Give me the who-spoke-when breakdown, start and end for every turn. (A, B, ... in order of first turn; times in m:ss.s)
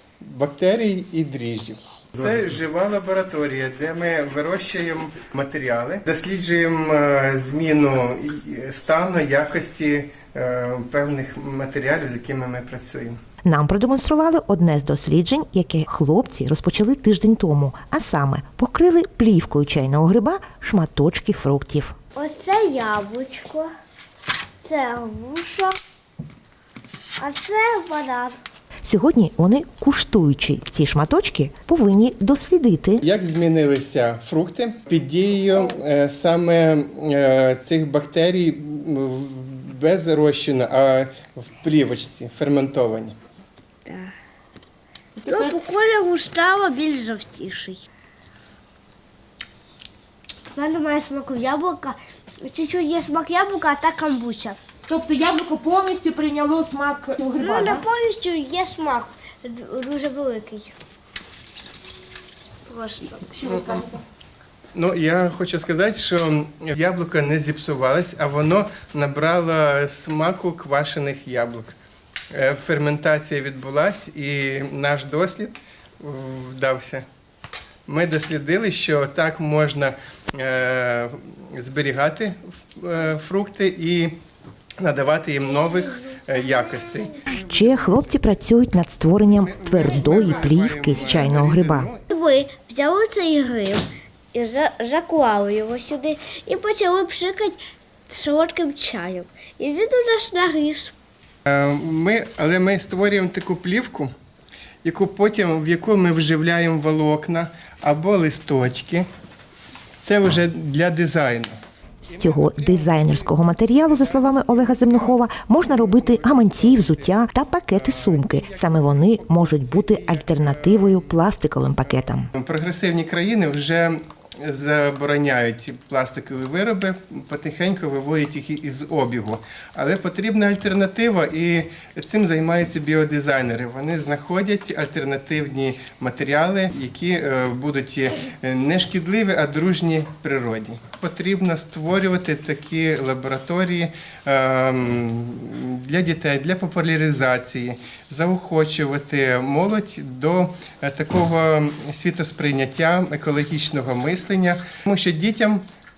0:00.2-0:13.2 A
0:13.4-0:22.0 B
0:22.1-0:23.7 C
0:24.6-0:25.8 C
0:27.2-0:28.4 C
0:28.8-0:33.0 B
0:33.0-0:43.2 A
0:43.8-0:44.1 C
0:45.2-0:45.5 D
0:45.3-0:47.8 C
0:50.5-0:54.6 C
0:54.8-0:57.8 D
0:57.4-1:00.7 C
1:02.6-1:03.3 C
1:03.3-1:04.0 D
1:04.7-1:11.7 A
1:12.3-1:17.0 A
1:17.8-1:24.1 A
1:24.8-1:27.9 A
1:27.4-1:31.9 B
1:29.2-1:32.0 A
1:32.1-1:40.9 C
1:41.4-1:44.1 A
1:44.8-1:49.1 A
1:50.0-2:01.2 A
1:52.0-2:02.3 B
2:02.3-2:35.6 A